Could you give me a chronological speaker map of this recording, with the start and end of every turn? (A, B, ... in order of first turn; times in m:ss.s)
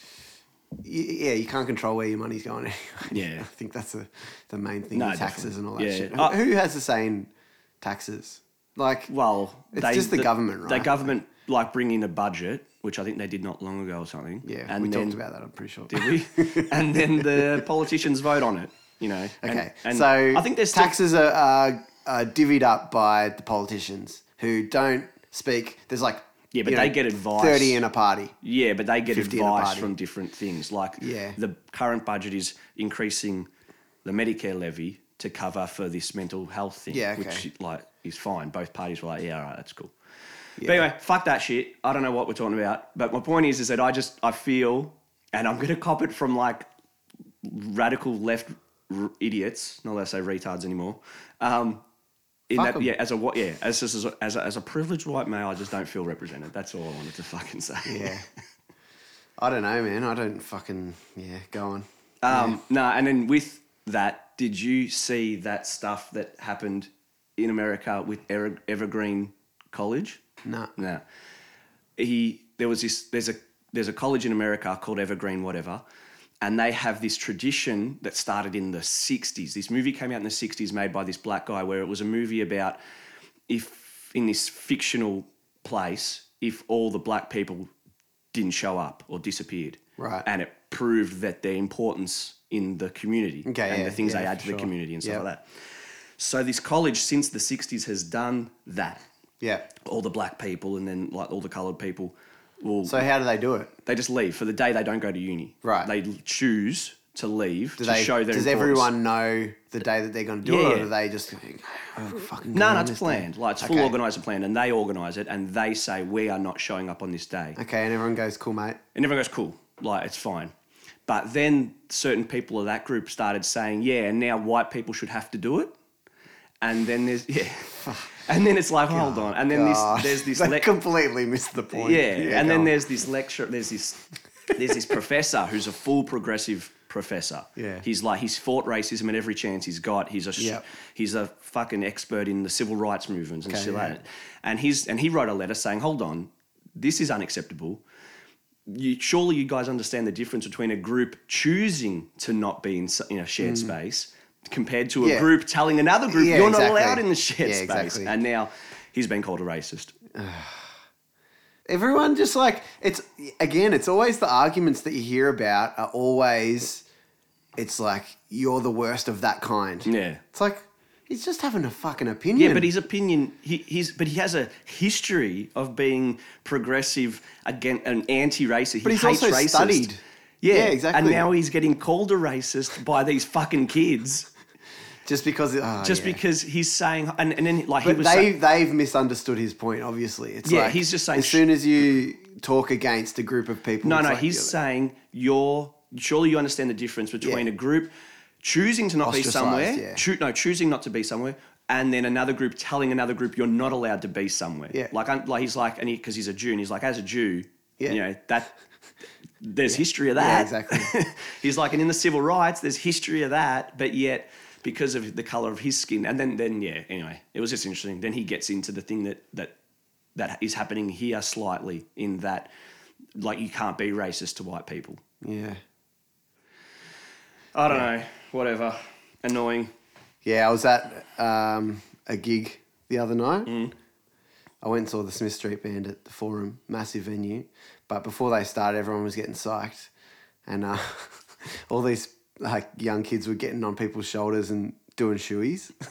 0:00.8-0:07.3 A
0:03.1-0:03.5 B
0:04.9-0:06.4 B
0:07.8-0:09.1 A
0:09.1-0:15.2 B
0:09.7-0:11.1 A
0:14.4-0:17.6 A
0:15.9-0:21.0 B
0:19.4-0:28.4 A
0:26.5-0:27.8 B
0:28.4-0:33.5 B
0:29.1-0:29.9 A
0:31.0-0:31.4 A
0:34.0-0:39.9 B
0:36.9-0:37.5 A
0:40.6-0:40.9 A
0:40.6-0:46.7 B
0:47.4-0:51.8 B
0:52.5-0:58.2 B
0:52.6-0:52.9 A
0:57.8-0:58.2 A
0:59.4-1:02.6 A
1:02.2-1:10.2 B
1:10.4-1:10.7 A
1:10.8-1:11.0 B
1:12.0-1:15.8 B
1:16.4-1:22.8 B
1:23.5-1:27.7 B
1:28.3-1:35.5 B
1:30.0-1:30.3 A
1:33.5-1:35.2 A
1:36.2-1:39.0 B
1:39.4-1:39.7 A
1:39.8-1:43.0 B
1:42.9-1:43.7 A
1:43.9-1:48.9 B
1:45.6-1:45.9 A
1:47.8-1:54.0 A
1:50.4-1:50.9 B
1:52.5-1:57.6 B
1:57.6-1:58.8 A
1:59.0-2:00.5 B
2:01.1-2:05.7 B
2:06.6-2:10.7 B
2:08.9-2:12.7 A
2:11.7-2:27.8 B
2:17.6-2:17.8 A
2:20.4-2:20.6 A
2:23.5-2:24.0 A
2:28.7-2:40.0 B
2:33.4-2:33.7 A
2:35.0-2:35.3 A
2:36.1-2:38.1 A
2:40.1-2:40.7 A
2:41.7-2:46.8 A
2:47.6-2:52.7 A
2:49.9-2:50.2 B
2:52.4-2:59.9 B
2:58.8-3:01.3 A
3:00.4-3:04.3 B
3:05.0-3:06.2 A
3:05.8-3:08.3 B
3:07.8-3:14.5 A
3:10.4-3:11.4 B
3:13.8-3:17.9 B
3:18.4-3:28.5 B
3:19.0-3:20.0 A
3:29.4-3:39.5 B
3:29.7-3:30.9 A
3:40.2-3:42.5 B
3:43.2-3:45.0 B
3:45.2-3:45.6 A
3:47.5-3:49.7 B
3:50.2-3:53.5 A
3:53.5-3:53.7 B
3:54.6-3:59.9 A
4:00.5-4:05.7 A